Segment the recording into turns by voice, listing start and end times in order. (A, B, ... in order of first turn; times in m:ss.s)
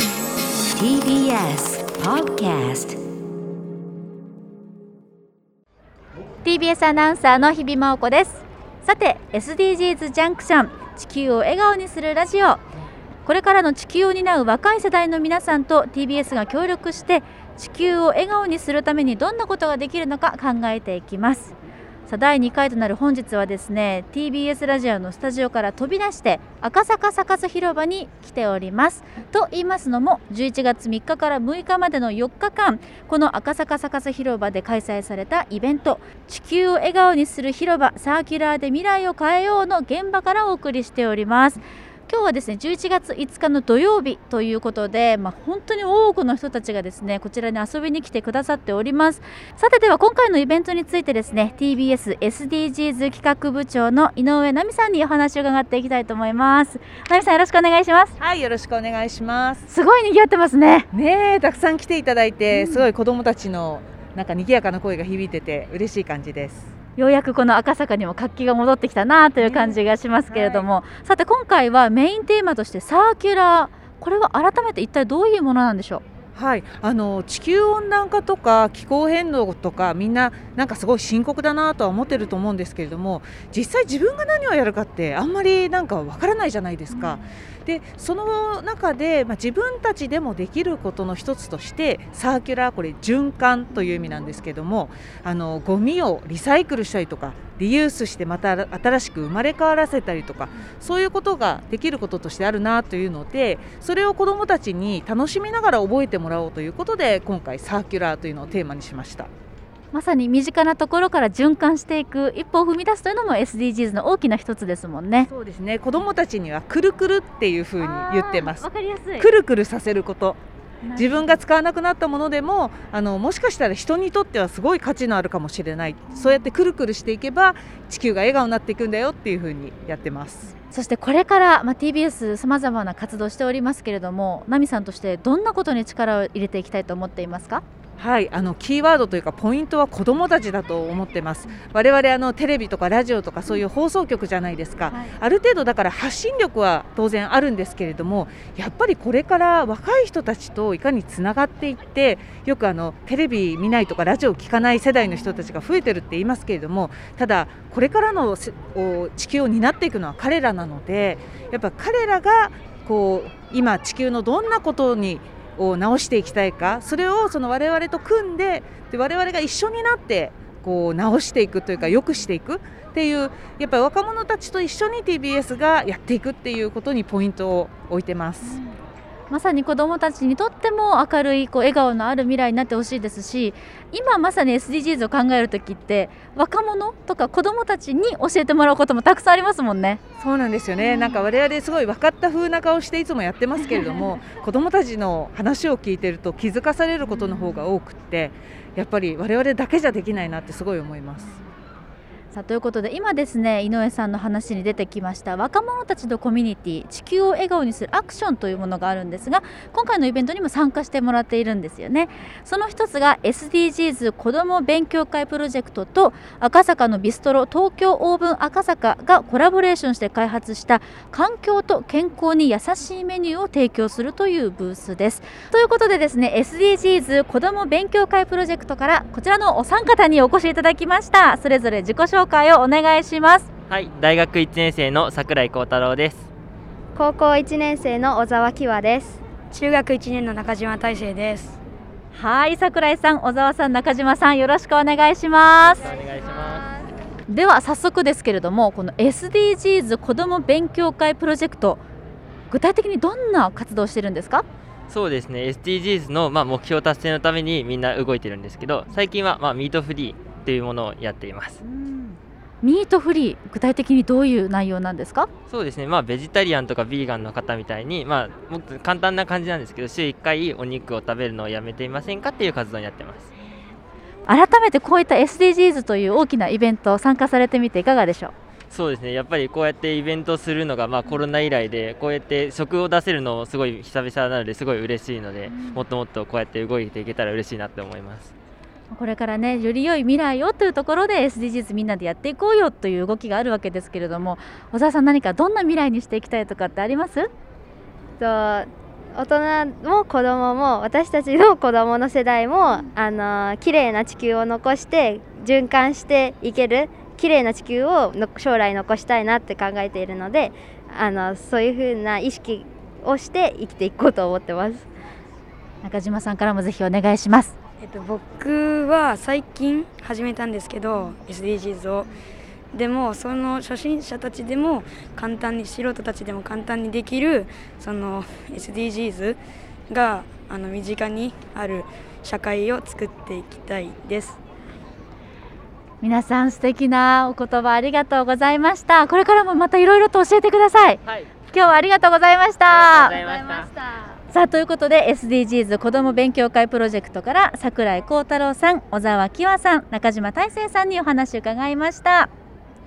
0:00.7-0:03.0 A
0:06.4-0:12.6 B
0:13.2-0:21.5 B
0:22.1-0:58.2 B
0:58.2-0:59.7 C
0:59.7-1:00.9 B
1:00.9-1:06.7 C
1:02.5-1:02.9 B
1:07.0-1:16.0 B
1:09.4-1:09.8 C
1:10.3-1:10.7 C
1:16.4-1:49.3 C
1:26.9-1:27.3 B
1:49.9-1:55.3 B
1:55.3-2:00.4 C
1:57.8-1:59.3 B
2:00.8-2:01.4 B
2:01.0-2:10.5 C
2:06.1-2:06.4 B
2:10.6-2:17.6 B
2:18.0-2:58.6 C
2:24.9-2:25.2 B
2:58.4-2:58.7 B
2:59.3-3:10.0 B
3:10.2-3:21.4 C
3:10.8-3:11.2 B
3:17.1-3:17.6 B
3:22.3-3:53.5 B
3:53.7-3:56.3 D
3:57.0-3:59.2 E
3:59.5-4:01.6 F
4:02.1-4:05.9 B
4:05.8-4:06.7 D
4:07.3-4:11.8 B
4:12.5-4:14.4 B
4:14.9-4:21.6 D
4:21.7-4:22.1 B
4:22.6-4:25.3 B
4:25.5-4:33.3 D
4:34.3-4:38.3 B
4:38.7-4:48.3 D
4:45.5-4:45.9 B
4:48.9-4:57.3 B
4:58.2-5:14.9 E
5:15.8-5:17.6 B
5:17.8-5:22.1 F
5:22.7-5:34.4 F
5:36.0-5:41.0 B
5:41.5-5:43.2 B
5:42.7-5:43.7 D
5:43.2-5:43.7 E
5:44.3-5:52.3 B